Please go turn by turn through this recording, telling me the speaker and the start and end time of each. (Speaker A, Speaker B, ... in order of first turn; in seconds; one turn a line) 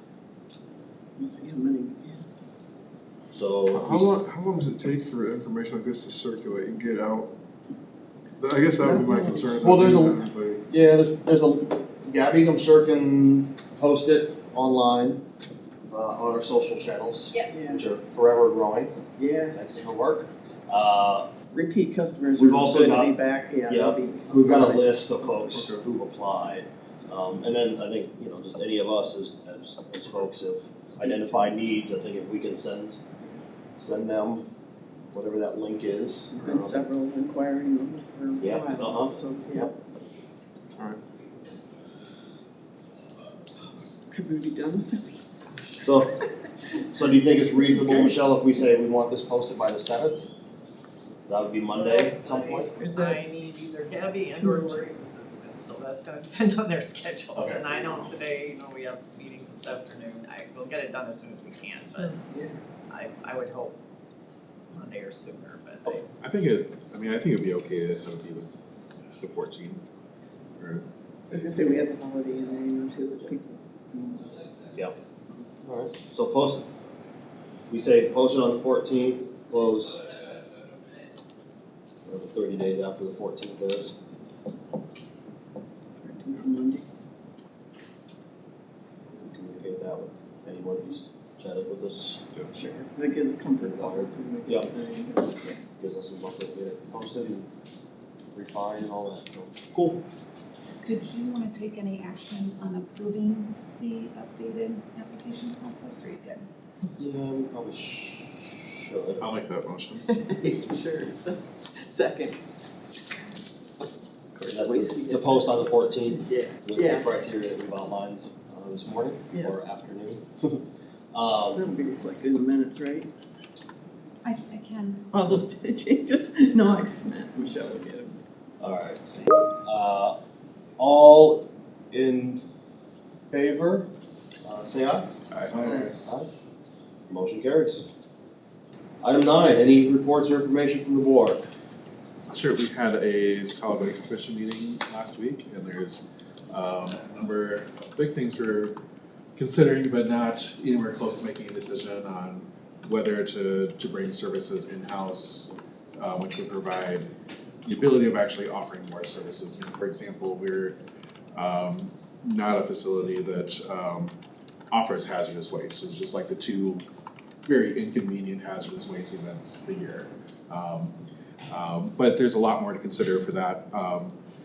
Speaker A: 1.2-2.2
Speaker B: 3.3-4.3
Speaker C: 3.7-7.3
Speaker C: 8.4-10.6
Speaker B: 9.0-15.2
Speaker B: 15.9-19.0
Speaker A: 17.4-17.9
Speaker A: 19.2-19.7
Speaker B: 19.5-21.3
Speaker A: 21.5-24.9
Speaker B: 22.4-23.1
Speaker B: 23.7-33.0
Speaker A: 30.9-31.5
Speaker B: 33.8-34.5
Speaker B: 35.1-36.7
Speaker A: 36.3-39.7
Speaker B: 38.4-39.7
Speaker A: 44.1-45.1
Speaker B: 45.8-46.1
Speaker B: 46.9-50.3
Speaker A: 47.6-48.1
Speaker B: 51.3-52.8
Speaker D: 51.9-62.2
Speaker A: 51.9-53.7
Speaker A: 54.3-55.0
Speaker A: 57.3-58.3
Speaker B: 57.4-58.0
Speaker A: 61.9-62.2
Speaker D: 62.9-63.7
Speaker D: 64.7-66.0
Speaker A: 65.2-65.7
Speaker E: 65.9-68.5
Speaker E: 69.2-69.8
Speaker E: 70.6-70.8
Speaker A: 71.3-74.3
Speaker B: 75.7-76.7
Speaker B: 77.7-80.1
Speaker B: 82.0-84.0
Speaker A: 86.0-86.8
Speaker B: 89.1-92.2
Speaker A: 92.5-95.6
Speaker B: 93.6-94.7
Speaker B: 95.8-97.5
Speaker B: 98.3-100.0
Speaker F: 100.8-106.5
Speaker B: 107.0-109.3
Speaker E: 109.2-110.1
Speaker A: 110.1-112.4
Speaker A: 114.3-117.1
Speaker B: 114.5-121.7
Speaker A: 121.5-123.1
Speaker F: 124.2-125.3
Speaker A: 125.1-128.2
Speaker B: 128.6-130.2
Speaker B: 130.8-132.4
Speaker B: 133.3-133.9
Speaker B: 134.4-136.3
Speaker E: 135.3-135.8
Speaker B: 137.1-137.9
Speaker B: 139.0-141.4
Speaker E: 142.3-148.8
Speaker E: 149.4-157.1
Speaker E: 157.7-160.8
Speaker E: 161.3-164.1
Speaker E: 164.7-166.8
Speaker E: 167.4-170.9
Speaker E: 171.5-174.1